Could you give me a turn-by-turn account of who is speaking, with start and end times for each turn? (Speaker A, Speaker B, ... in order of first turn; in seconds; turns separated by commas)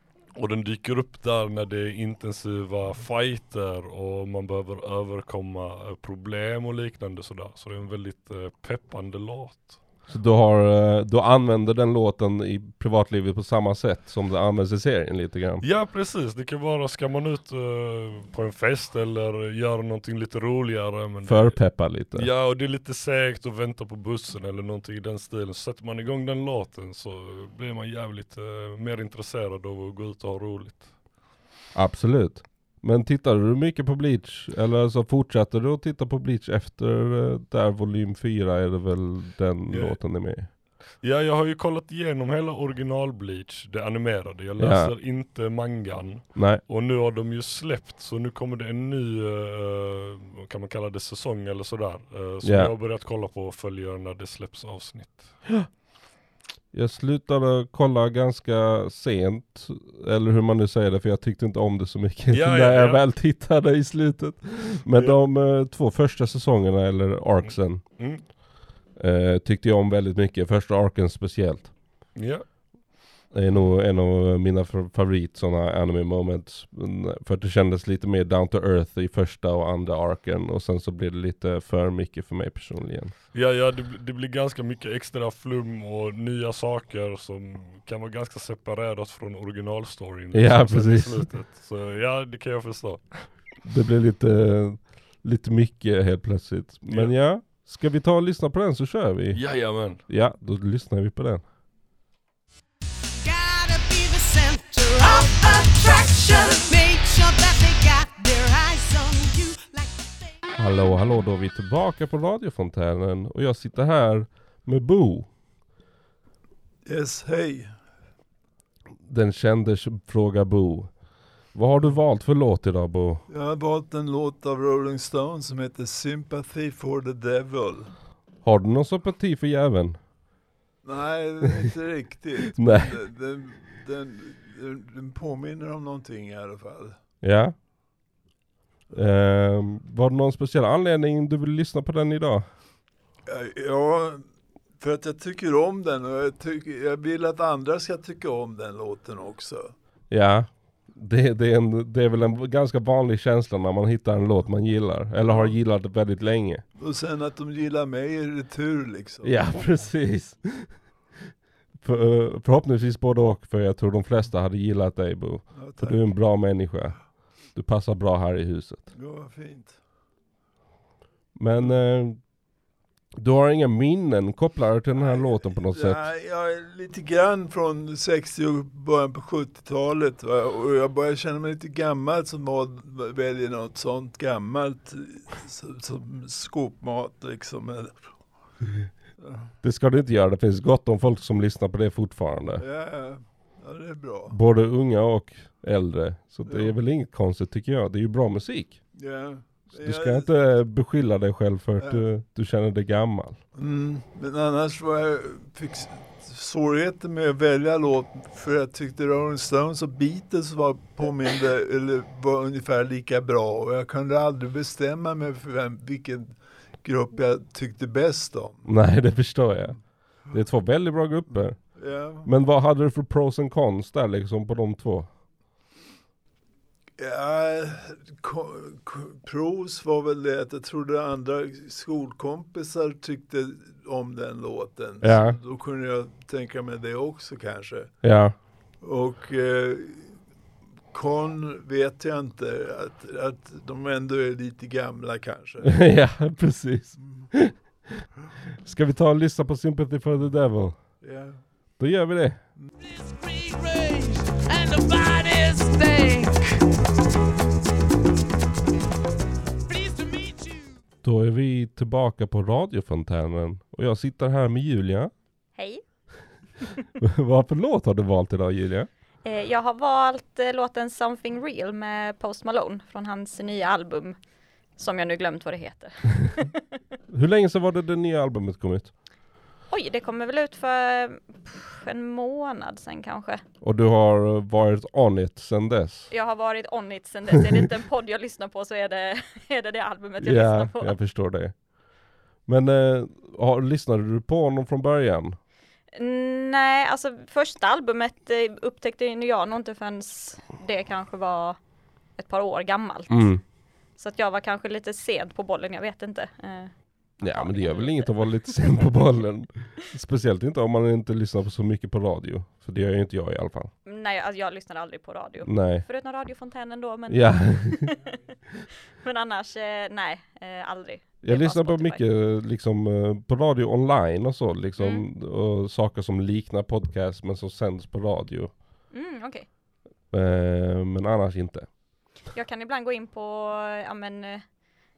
Speaker A: 0.3-9.8, Speaker B: 10.1-15.6, Speaker A: 15.6-31.0, Speaker B: 21.2-22.3, Speaker B: 31.7-40.5, Speaker A: 39.7-40.0, Speaker A: 40.5-55.4, Speaker B: 44.6-44.9, Speaker B: 46.3-46.6, Speaker B: 52.4-52.7, Speaker B: 56.7-68.0, Speaker A: 62.3-63.0, Speaker A: 67.4-68.2, Speaker B: 69.0-71.7, Speaker A: 72.1-72.5, Speaker B: 73.3-83.1, Speaker A: 83.3-93.4, Speaker B: 90.3-91.3, Speaker B: 93.6-101.4, Speaker A: 96.9-97.1, Speaker A: 99.3-100.0, Speaker C: 103.2-110.1, Speaker B: 110.6-115.3, Speaker D: 116.8-117.8, Speaker B: 119.1-120.9, Speaker B: 121.5-123.2, Speaker D: 123.3-127.9, Speaker B: 128.4-130.0, Speaker D: 130.8-137.0, Speaker B: 132.5-132.9, Speaker B: 137.2-137.5, Speaker B: 138.9-142.5, Speaker D: 143.2-144.2, Speaker D: 144.8-149.7, Speaker B: 150.1-156.7, Speaker D: 155.2-155.6, Speaker D: 156.8-159.8, Speaker B: 159.2-160.8, Speaker B: 161.8-168.9, Speaker D: 165.5-166.6, Speaker D: 168.9-169.8, Speaker B: 171.3-172.2, Speaker B: 173.2-176.1, Speaker D: 174.9-188.2, Speaker D: 189.2-189.5, Speaker B: 189.6-192.6, Speaker D: 192.6-194.4, Speaker B: 194.3-198.8, Speaker D: 196.5-196.8, Speaker D: 198.9-200.3, Speaker B: 199.8-203.4, Speaker D: 201.8-202.1, Speaker D: 203.5-218.8, Speaker B: 218.7-225.1, Speaker D: 221.3-222.3, Speaker D: 227.0-238.2, Speaker B: 235.0-235.4, Speaker B: 238.0-238.3, Speaker D: 238.8-240.2, Speaker D: 240.9-245.7, Speaker B: 245.6-247.6, Speaker D: 247.0-247.3, Speaker B: 248.6-250.9, Speaker D: 251.0-251.4, Speaker B: 251.8-252.4, Speaker C: 252.8-256.5, Speaker C: 259.7-260.6, Speaker B: 261.0-265.1, Speaker E: 265.6-265.8, Speaker B: 267.0-268.9, Speaker E: 269.2-274.2, Speaker E: 274.8-276.6, Speaker B: 277.1-278.9, Speaker E: 279.7-283.4, Speaker B: 283.6-286.1, Speaker E: 286.1-290.9, Speaker B: 290.2-295.4, Speaker E: 295.9-301.6, Speaker E: 302.2-303.4, Speaker B: 303.1-303.4, Speaker E: 304.0-308.9, Speaker B: 307.2-313.7, Speaker E: 313.8-318.1, Speaker B: 315.4-315.8, Speaker B: 317.1-317.9, Speaker E: 319.0-322.0, Speaker B: 321.2-328.5, Speaker E: 324.8-325.0, Speaker E: 328.9-329.5, Speaker B: 330.1-331.7, Speaker E: 332.3-334.4